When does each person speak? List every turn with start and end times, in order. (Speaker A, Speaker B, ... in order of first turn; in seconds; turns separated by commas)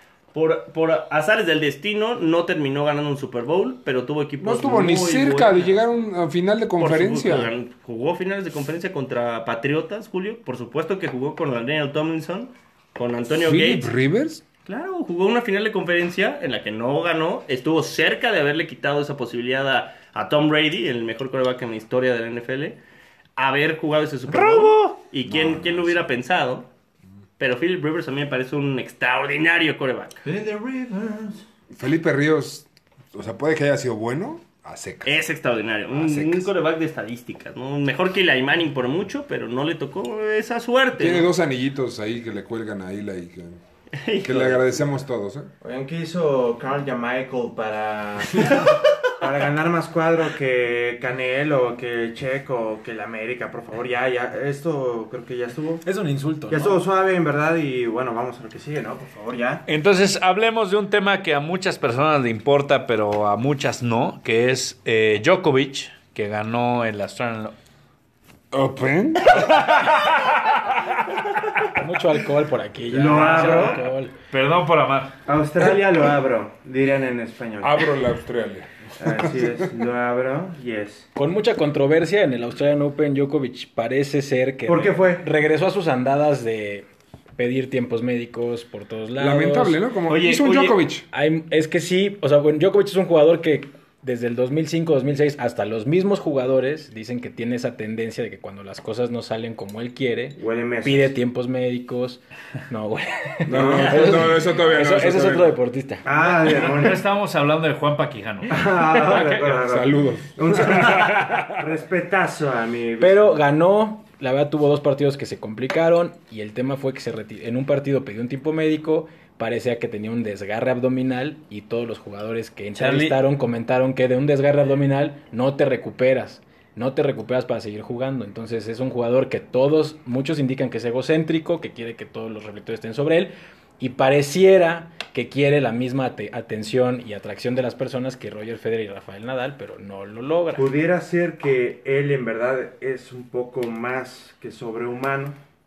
Speaker A: 0.3-5.8, Speaker B: 4.4-7.5, Speaker A: 6.8-13.9, Speaker B: 13.3-14.4, Speaker A: 14.7-22.8, Speaker A: 23.4-26.7, Speaker B: 24.3-24.6, Speaker B: 25.2-26.0, Speaker A: 27.4-30.2, Speaker C: 30.2-31.4, Speaker B: 31.7-35.2, Speaker A: 35.0-41.2, Speaker B: 35.9-36.5, Speaker B: 41.0-43.6, Speaker A: 44.0-44.7, Speaker B: 44.2-45.5, Speaker C: 45.6-55.8, Speaker D: 55.8-56.8, Speaker C: 56.5-59.6, Speaker E: 59.7-67.5, Speaker B: 68.5-71.6, Speaker D: 71.8-74.1, Speaker C: 72.9-73.8, Speaker E: 73.1-73.7, Speaker E: 74.3-75.1, Speaker C: 75.3-77.8, Speaker B: 77.6-79.7, Speaker C: 79.0-81.1, Speaker D: 81.1-89.8, Speaker C: 84.7-85.2, Speaker B: 89.2-91.0, Speaker A: 90.1-90.8, Speaker D: 91.1-106.0, Speaker C: 100.4-101.1, Speaker B: 103.5-105.6, Speaker C: 103.5-104.1, Speaker C: 106.0-107.0, Speaker E: 106.1-109.6, Speaker C: 108.5-113.4, Speaker B: 109.5-111.6, Speaker D: 113.0-140.7, Speaker E: 122.7-123.2, Speaker C: 140.5-145.4